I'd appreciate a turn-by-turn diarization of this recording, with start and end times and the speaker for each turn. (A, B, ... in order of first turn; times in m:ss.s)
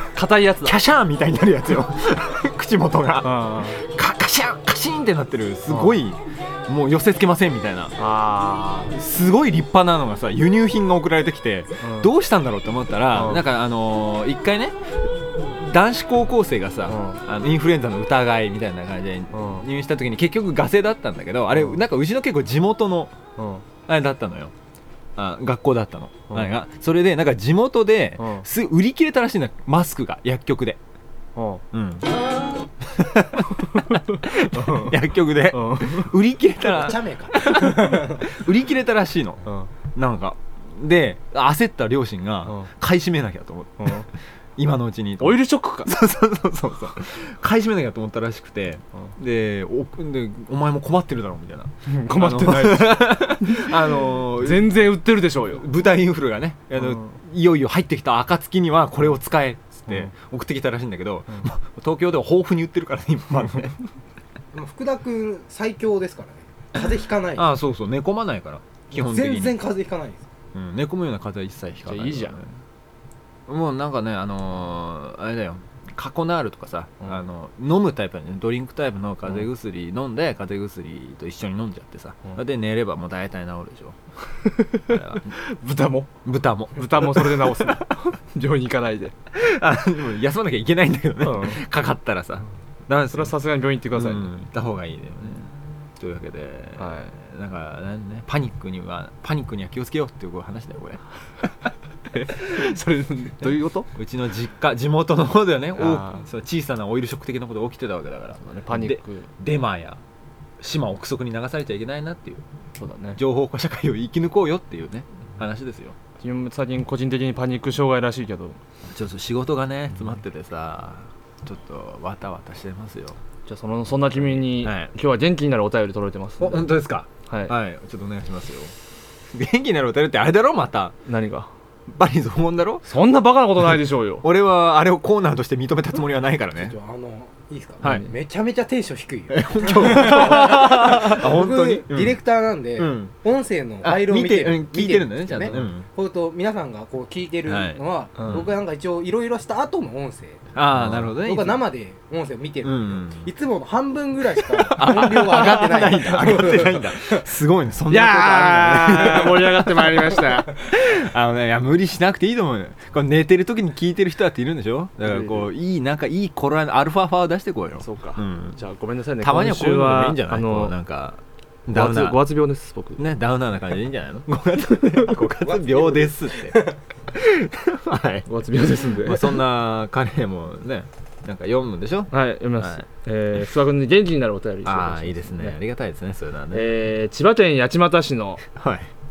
0:00.1-0:00.8 A
0:00.6-0:08.0 B
0:03.2-0:03.8 A
0:05.7-0:06.0 A
0:08.0-0:09.0 A
0:08.9-0:23.1 B
0:11.8-0:12.1 A
0:13.1-0:13.4 A
0:16.9-0:17.2 A
0:19.3-0:19.6 A
0:21.5-0:21.8 A
0:23.4-0:23.6 A
0:23.9-0:24.5 B
0:25.2-0:30.8 B
0:28.2-0:28.5 A
0:31.4-0:31.6 A
0:31.7-0:32.1 B
0:32.8-0:44.0 B
0:33.6-0:36.1 A
0:36.7-0:38.4 C
0:39.4-0:39.7 A
0:43.8-0:44.1 A
0:44.6-0:54.8 B
0:45.2-0:45.9 A
0:51.8-0:55.7 A
0:55.5-1:03.7 B
0:56.8-0:57.2 A
1:04.5-1:07.5 C
1:06.8-1:09.6 B
1:08.9-1:10.2 C
1:10.5-1:12.4 B
1:11.8-1:12.4 A
1:13.5-1:24.0 B
1:24.4-1:26.1 A
1:24.8-1:25.3 B
1:26.2-1:27.9 B
1:26.7-1:29.1 A
1:29.3-1:33.3 B
1:31.2-1:31.6 A
1:33.1-1:34.3 A
1:33.9-1:42.7 B
1:36.8-1:37.1 A
1:42.2-1:43.9 A
1:43.9-1:50.0 B
1:45.8-1:46.2 A
1:48.4-1:49.3 A
1:50.6-1:52.4 B
1:52.8-1:53.2 A
1:53.2-1:56.0 B
1:56.2-1:58.6 A
1:58.8-2:03.2 B
2:03.5-2:06.7 A
2:04.1-2:04.9 B
2:06.4-2:08.7 B
2:07.3-2:07.5 A
2:09.3-2:11.0 B
2:11.0-2:11.5 A
2:11.9-2:12.8 B
2:12.8-2:14.2 A
2:14.2-2:16.7 B
2:16.6-2:30.5 C
2:17.8-2:18.1 A
2:19.3-2:22.2 B
2:19.9-2:21.0 A
2:22.8-2:23.1 B
2:23.8-2:25.8 B
2:27.4-2:27.8 B
2:28.2-2:28.5 A
2:30.5-2:31.6 B
2:31.1-2:37.2 C
2:32.6-2:33.3 B
2:34.7-2:48.6 B
2:37.9-2:40.5 A
2:45.1-2:45.5 A
2:47.8-2:50.8 A
2:49.2-2:52.2 B
2:51.7-2:53.0 A
2:53.0-2:58.3 B
2:54.8-2:55.2 A
2:55.4-2:56.7 C
2:58.3-2:59.4 A
2:58.9-3:03.4 B
3:02.1-3:05.6 A
3:04.6-3:06.7 B
3:06.5-3:08.4 A
3:08.5-3:08.9 B